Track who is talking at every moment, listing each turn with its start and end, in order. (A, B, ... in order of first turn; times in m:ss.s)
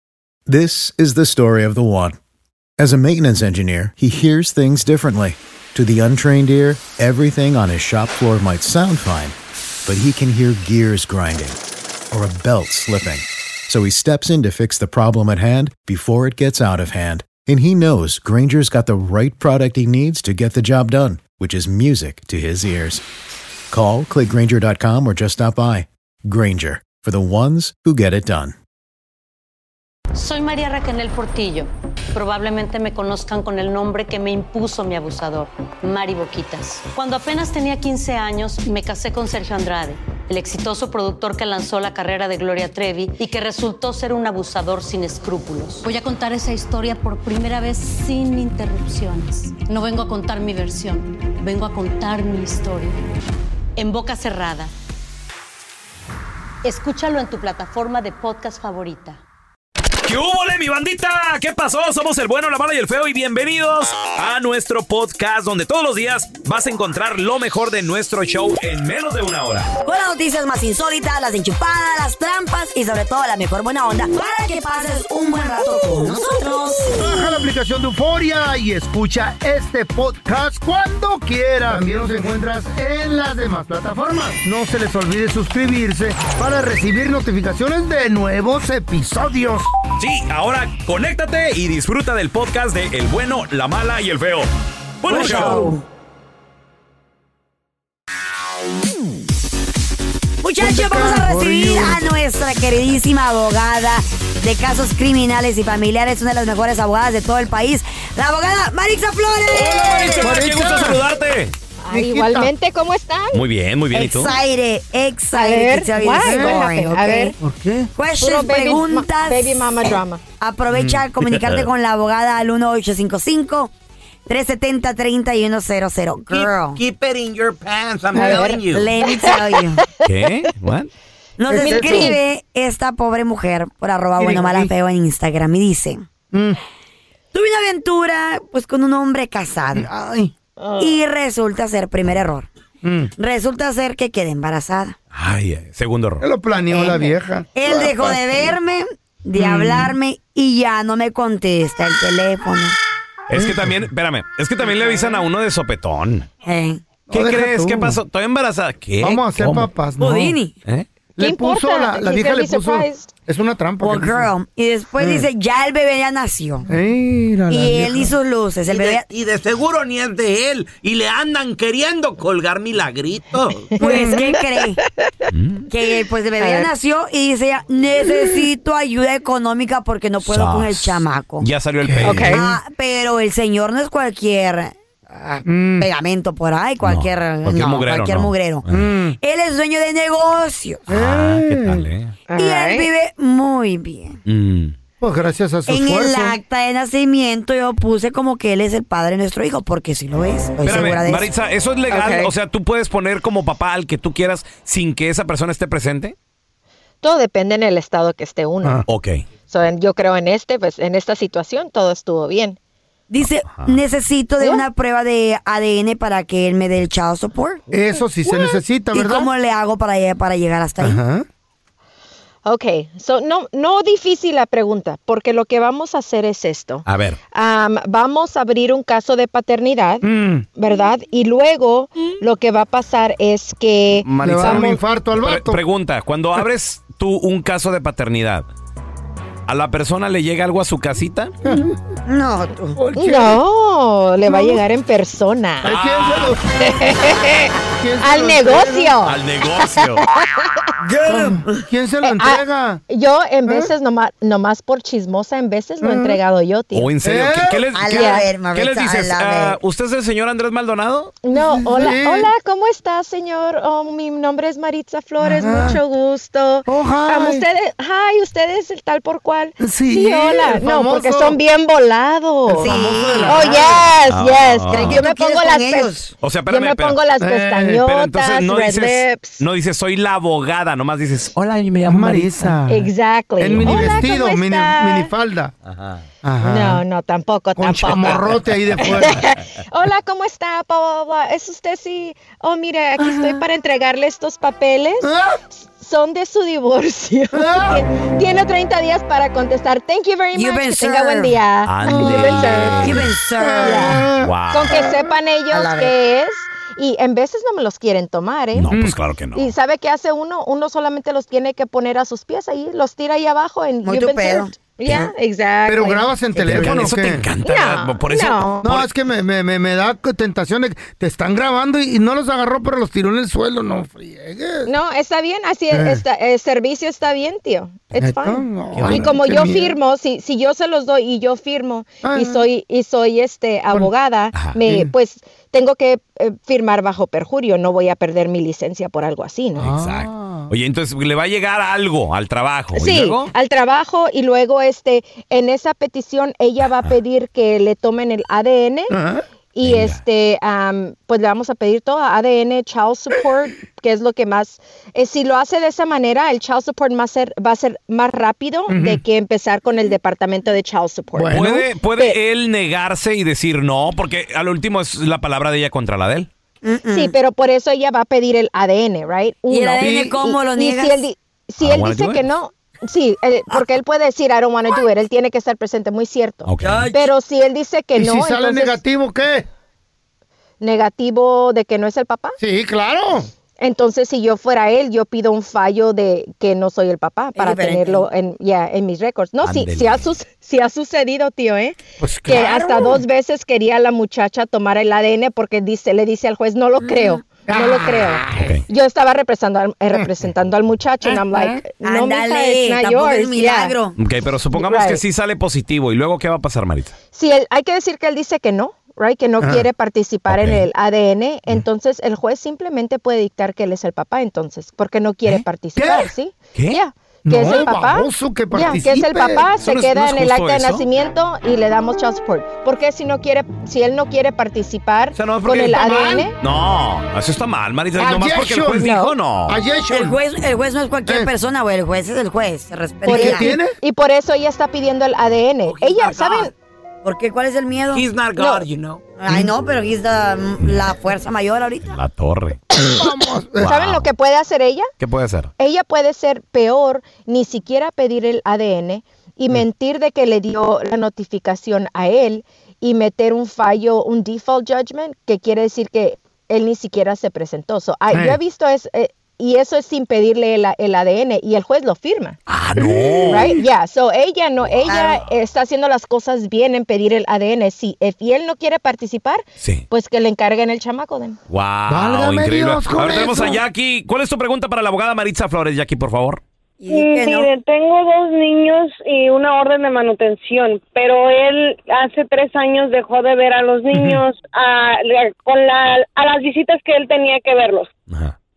0:00.5-0:02.2 A
0:02.8-0:09.4 A
0:09.9-0:11.6 A
0:12.1-0:23.0 A
0:23.7-0:28.6 A
0:30.2-0:53.0 B
0:53.8-0:54.7 B
0:56.6-0:59.2 B
1:00.0-1:09.7 C
1:09.8-1:17.2 D
1:16.9-1:29.7 E
1:30.0-1:34.5 C
1:35.0-1:35.7 C
1:35.1-1:35.8 D
1:35.1-1:35.7 E
1:40.4-1:50.4 D
1:40.6-1:42.1 E
1:49.5-1:51.5 C
1:50.2-1:51.0 E
1:51.8-1:53.4 F
1:51.9-1:52.5 E
1:53.3-1:54.4 C
1:53.9-1:57.4 D
1:55.3-1:57.4 F
1:56.2-1:56.7 E
1:57.4-1:57.9 E
1:58.0-2:03.7 D
1:58.2-2:00.2 F
2:00.7-2:01.0 E
2:01.2-2:01.7 C
2:04.3-2:06.8 D
2:06.3-2:09.0 G
2:08.2-2:08.4 E
2:08.2-2:08.6 F
2:08.2-2:09.8 D
2:10.0-2:10.9 C
2:11.4-2:16.1 D
2:11.5-2:12.2 E
2:11.6-2:12.2 F
2:14.2-2:14.7 E
2:16.3-2:16.6 E
2:17.3-2:19.9 D
2:19.7-2:20.3 E
2:20.6-2:20.9 F
2:20.8-2:22.5 D
2:22.8-2:23.1 E
2:23.2-2:25.0 D
2:25.1-2:26.2 C
2:26.2-2:28.6 E
2:26.7-2:32.8 D
2:29.4-2:29.9 E
2:33.3-2:36.3 C
2:33.3-2:33.8 E
2:36.4-2:36.8 D
2:37.1-2:38.0 E
2:37.1-2:39.7 C
2:39.0-2:40.4 E
2:40.0-2:40.5 D
2:41.2-2:44.3 E
2:41.2-2:43.1 F
2:43.8-2:46.7 D
2:45.0-2:45.3 E
2:46.7-2:48.1 E
2:47.5-2:49.0 D
2:48.7-2:53.7 G
2:53.8-2:54.8 D
2:53.8-2:54.2 E
2:55.3-2:55.7 C
2:55.7-3:01.5 D
2:56.4-2:56.7 F
3:00.2-3:02.4 C
3:01.8-3:02.3 E
3:02.0-3:02.4 F
3:02.3-3:04.8 D
3:05.2-3:05.9 E
3:05.8-3:08.6 D
3:06.8-3:08.9 C
3:08.7-3:09.2 E
3:09.2-3:10.9 D
3:10.9-3:11.9 E
3:10.9-3:12.2 C
3:12.3-3:12.9 F
3:12.4-3:14.2 D
3:14.3-3:14.8 C
3:15.0-3:16.4 E
3:15.7-3:21.3 D
3:20.6-3:26.2 C
3:21.9-3:22.3 F
3:27.0-3:28.8 F
3:28.9-3:29.2 C
3:29.5-3:32.6 F
3:33.1-3:37.6 D
3:33.5-3:33.8 C
3:34.4-3:34.6 F
3:37.7-3:39.3 E
3:38.2-3:38.6 F
3:38.9-3:41.0 D
3:40.8-3:41.2 E
3:42.5-3:54.7 F
3:46.9-3:47.2 C
3:50.0-3:50.5 E
3:54.0-3:58.5 C
3:54.2-3:55.6 E
3:59.5-4:01.3 C
4:01.4-4:01.8 E
4:02.1-4:02.8 D
4:02.8-4:03.4 E
4:03.0-4:05.7 F
4:04.3-4:04.6 E
4:05.6-4:06.5 E
4:05.7-4:06.3 C
4:06.6-4:09.2 F
4:07.8-4:09.0 E
4:09.0-4:10.1 C
4:09.8-4:10.7 F
4:11.0-4:12.8 E
4:12.0-4:16.9 F
4:15.8-4:16.2 E
4:16.7-4:21.2 C
4:17.0-4:17.6 E
4:17.7-4:19.6 D
4:17.9-4:18.3 F
4:21.2-4:39.4 F
4:21.4-4:22.3 E
4:25.2-4:25.8 E
4:26.7-4:27.4 E
4:29.6-4:31.4 E
4:32.5-4:34.0 E
4:32.6-4:33.8 D
4:34.1-4:35.0 C
4:34.7-4:36.1 D
4:36.2-4:37.0 C
4:37.2-4:37.8 E
4:37.8-4:41.3 C
4:41.4-4:42.5 G
4:41.8-4:45.5 E
4:42.7-4:45.1 F
4:43.6-4:43.8 C
4:46.2-4:46.8 E
4:46.4-5:02.9 F
4:47.6-4:49.2 E
4:53.0-4:53.3 E
4:55.0-4:55.4 E
4:57.3-4:57.9 E
5:00.4-5:01.4 D
5:01.6-5:03.1 C
5:01.9-5:04.9 E
5:02.8-5:04.1 D
5:03.6-5:08.7 F
5:04.2-5:04.9 C
5:05.5-5:05.9 D
5:08.6-5:09.5 C
5:08.7-5:09.0 E
5:09.4-5:16.9 F
5:13.8-5:15.1 D
5:15.7-5:17.3 E
5:16.4-5:18.9 C
5:17.4-5:18.7 F
5:18.6-5:24.7 E
5:24.7-5:39.7 F
5:25.7-5:26.0 E
5:28.0-5:29.8 E
5:28.7-5:29.1 C
5:32.0-5:32.4 E
5:34.6-5:34.9 E
5:39.6-5:40.5 E
5:39.7-5:43.3 C
5:42.7-5:48.9 F
5:48.9-5:49.2 E
5:49.5-6:01.4 F
5:49.6-5:50.0 C
5:58.7-5:59.0 E
6:01.2-6:01.7 E
6:01.3-6:06.3 C
6:06.6-6:07.1 D
6:06.9-6:18.8 F
6:09.5-6:11.0 D
6:09.8-6:10.2 E
6:11.6-6:12.3 C
6:16.5-6:16.9 C
6:16.6-6:17.0 G
6:18.0-6:19.5 E
6:20.6-6:22.4 F
6:22.4-6:23.3 E
6:23.6-6:43.7 F
6:27.4-6:28.1 D
6:29.4-6:30.0 C
6:32.0-6:33.0 E
6:36.8-6:37.2 D
6:37.5-6:38.5 E
6:38.4-6:38.6 C
6:41.1-6:44.0 D
6:44.0-6:46.9 C
6:44.6-6:45.0 F
6:47.1-7:06.4 F
6:49.4-6:49.7 E
6:50.3-6:50.6 C
6:55.8-6:56.1 E
6:57.2-6:59.5 E
6:59.6-7:00.9 C
7:05.2-7:09.6 C
7:05.7-7:06.3 E
7:08.0-7:08.9 E
7:08.8-7:09.1 F
7:09.5-7:10.2 E
7:09.9-7:13.5 D
7:13.0-7:16.5 F
7:13.1-7:13.8 E
7:15.7-7:16.5 G
7:17.0-7:18.1 D
7:17.9-7:19.1 G
7:18.4-7:18.6 F
7:19.2-7:21.9 D
7:21.9-7:22.6 C
7:22.8-7:23.7 E
7:23.6-7:24.1 C
7:23.6-7:24.9 F
7:25.0-7:25.5 C
7:25.6-7:42.4 F
7:38.1-7:38.4 E
7:42.5-7:43.6 C
7:42.8-7:43.6 E
7:43.3-7:51.4 F
7:44.9-7:45.2 D
7:49.6-7:49.8 C
7:51.5-7:56.4 C
7:51.9-7:53.6 E
7:56.8-7:57.5 D
7:56.9-8:07.9 H
8:03.9-8:04.2 E